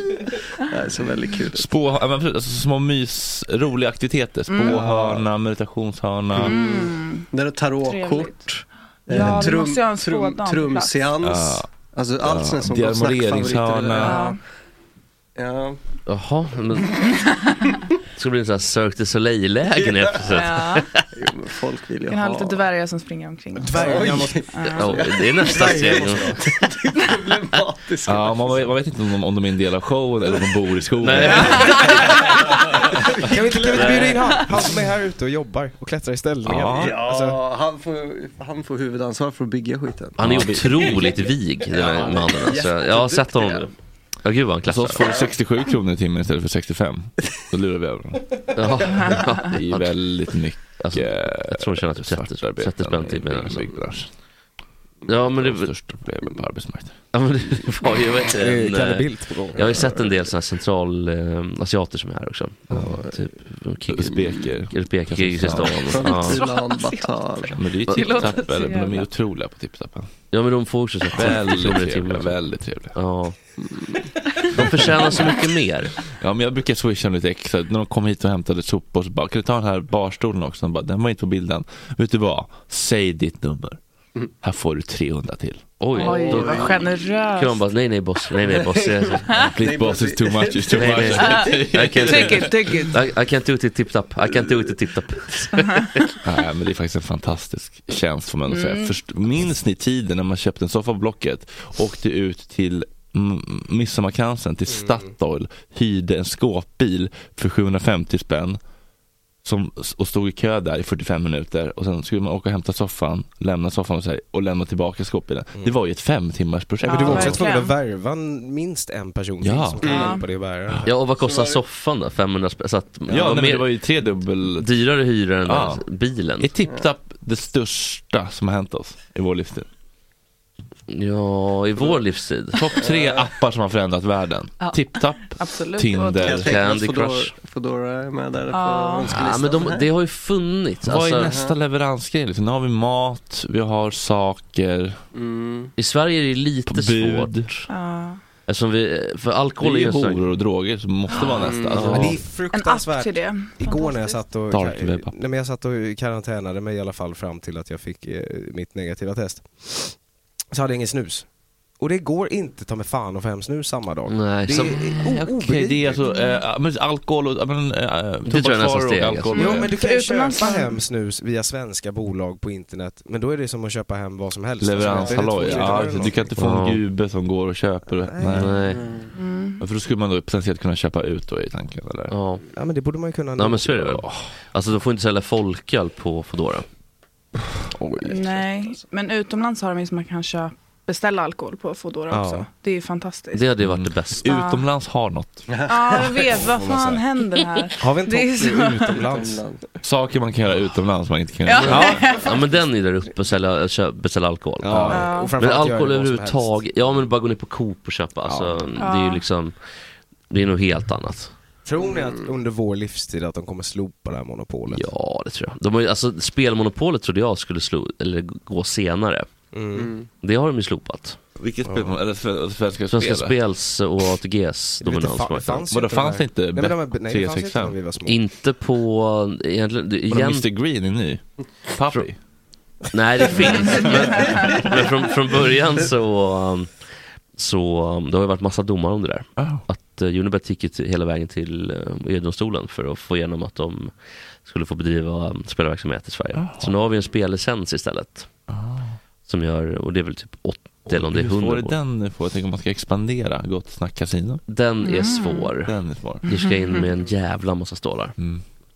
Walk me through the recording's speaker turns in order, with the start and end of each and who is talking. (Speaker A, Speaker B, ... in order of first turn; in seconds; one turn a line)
Speaker A: 0.7-1.7
Speaker B: 1.5-6.6
Speaker C: 4.5-4.9
Speaker A: 4.8-5.1
Speaker C: 6.4-7.3
Speaker A: 6.4-14.4
Speaker C: 7.8-8.5
Speaker C: 9.1-11.2
Speaker B: 9.1-9.5
Speaker B: 11.2-11.7
Speaker B: 12.2-14.2
Speaker C: 13.9-14.4
Speaker A: 15.4-15.8
Speaker D: 16.1-16.9
Speaker D: 18.2-21.0
Speaker A: 19.8-20.2
Speaker C: 20.3-20.9
Speaker A: 21.1-22.6
Speaker C: 22.1-25.0
Speaker E: 23.6-24.6
Speaker A: 23.7-28.6
Speaker D: 24.8-26.4
Speaker E: 25.5-26.3
Speaker B: 28.1-31.9
Speaker D: 31.0-32.1
Speaker C: 31.2-32.2
Speaker E: 33.2-37.4
Speaker A: 33.7-34.1
Speaker D: 33.7-34.4
Speaker B: 36.5-37.0
Speaker A: 36.8-41.1
Speaker D: 40.2-43.7
Speaker B: 40.2-41.2
Speaker A: 41.7-43.7
Speaker D: 44.2-45.1
Speaker B: 44.7-48.2
Speaker D: 48.5-50.0
Speaker B: 49.5-54.1
Speaker D: 50.8-53.7
Speaker D: 55.1-55.7
Speaker B: 55.2-57.0
Speaker D: 57.1-64.2
Speaker E: 58.4-60.0
Speaker A: 59.6-60.0
Speaker B: 62.7-63.0
Speaker B: 63.9-65.9
Speaker D: 64.7-66.5
Speaker A: 65.8-67.5
Speaker C: 66.0-69.1
Speaker B: 67.5-70.1
Speaker D: 70.3-72.4
Speaker B: 71.1-73.0
Speaker D: 73.0-73.4
Speaker A: 73.6-74.0
Speaker D: 74.5-75.9
Speaker B: 74.6-74.9
Speaker B: 76.2-83.8
Speaker B: 84.4-85.7
Speaker D: 85.8-86.8
Speaker C: 85.9-87.6
Speaker A: 86.0-86.8
Speaker D: 87.3-89.3
Speaker A: 88.5-91.0
Speaker C: 89.3-89.5
Speaker B: 89.4-92.6
Speaker D: 90.7-95.8
Speaker C: 91.2-93.0
Speaker C: 95.5-96.1
Speaker B: 96.2-108.6
Speaker C: 98.5-99.0
Speaker B: 109.4-117.4
Speaker C: 116.8-117.8
Speaker E: 116.9-120.9
Speaker B: 119.4-120.0
Speaker A: 119.8-120.2
Speaker C: 119.9-120.2
Speaker D: 120.9-123.7
Speaker A: 121.2-121.6
Speaker B: 123.1-124.7
Speaker D: 124.6-126.5
Speaker B: 125.5-125.8
Speaker B: 126.4-129.7
Speaker D: 130.9-132.7
Speaker B: 132.5-136.5
Speaker A: 132.8-133.2
Speaker C: 134.6-136.5
Speaker A: 136.2-139.9
Speaker D: 136.3-137.3
Speaker C: 138.5-139.2
Speaker D: 139.1-141.3
Speaker B: 140.8-145.0
Speaker A: 141.2-141.6
Speaker A: 145.1-145.7
Speaker D: 145.8-147.7
Speaker B: 146.7-147.5
Speaker C: 147.7-148.2
Speaker D: 148.5-150.2
Speaker B: 149.6-152.2
Speaker C: 151.1-151.4
Speaker A: 151.4-151.9
Speaker D: 151.7-152.1
Speaker E: 151.9-160.0
Speaker C: 152.5-154.2
Speaker B: 154.5-155.1
Speaker E: 160.5-161.3
Speaker E: 161.8-166.0
Speaker D: 164.1-165.1
Speaker B: 165.1-169.7
Speaker D: 168.3-169.6
Speaker C: 169.3-170.8
Speaker E: 169.4-176.3
Speaker B: 174.6-178.6
Speaker A: 174.8-175.9
Speaker D: 176.4-176.8
Speaker E: 177.9-178.5
Speaker D: 178.4-178.8
Speaker A: 178.7-179.1
Speaker C: 179.2-179.7
Speaker B: 179.6-182.2
Speaker D: 182.1-182.4
Speaker E: 182.5-184.0
Speaker D: 183.4-186.7
Speaker B: 183.9-184.3
Speaker E: 187.8-188.3
Speaker C: 188.1-193.6
Speaker E: 192.1-192.5
Speaker D: 193.3-194.3
Speaker B: 193.6-195.5
Speaker C: 194.2-194.7
Speaker A: 195.5-196.2
Speaker C: 195.7-199.2
Speaker E: 196.3-197.0
Speaker E: 197.8-199.4
Speaker A: 199.1-199.6
Speaker B: 199.8-202.1
Speaker C: 201.4-202.4
Speaker D: 201.5-209.6
Speaker E: 204.6-206.6
Speaker B: 204.7-205.0
Speaker C: 204.9-205.4
Speaker E: 208.2-208.8
Speaker C: 208.8-209.2
Speaker D: 210.3-211.3
Speaker E: 211.7-214.9
Speaker A: 211.8-212.3
Speaker D: 214.7-219.3
Speaker E: 219.5-219.9
Speaker A: 219.8-220.1
Speaker D: 220.2-221.2
Speaker B: 221.4-223.4
Speaker E: 221.7-222.0
Speaker D: 222.9-225.7
Speaker E: 224.8-228.2
Speaker B: 225.7-227.8
Speaker D: 228.1-230.5
Speaker B: 230.1-231.2
Speaker B: 231.8-232.2
Speaker D: 232.9-236.7
Speaker C: 233.4-234.6
Speaker D: 237.4-243.9
Speaker B: 239.4-239.6
Speaker D: 244.4-248.3
Speaker B: 246.4-246.7
Speaker B: 248.5-249.0
Speaker D: 249.3-251.8
Speaker B: 250.9-254.4
Speaker D: 254.5-255.7
Speaker C: 254.8-255.5
Speaker B: 255.7-256.3
Speaker C: 256.2-256.9
Speaker D: 256.3-258.1
Speaker B: 258.2-258.4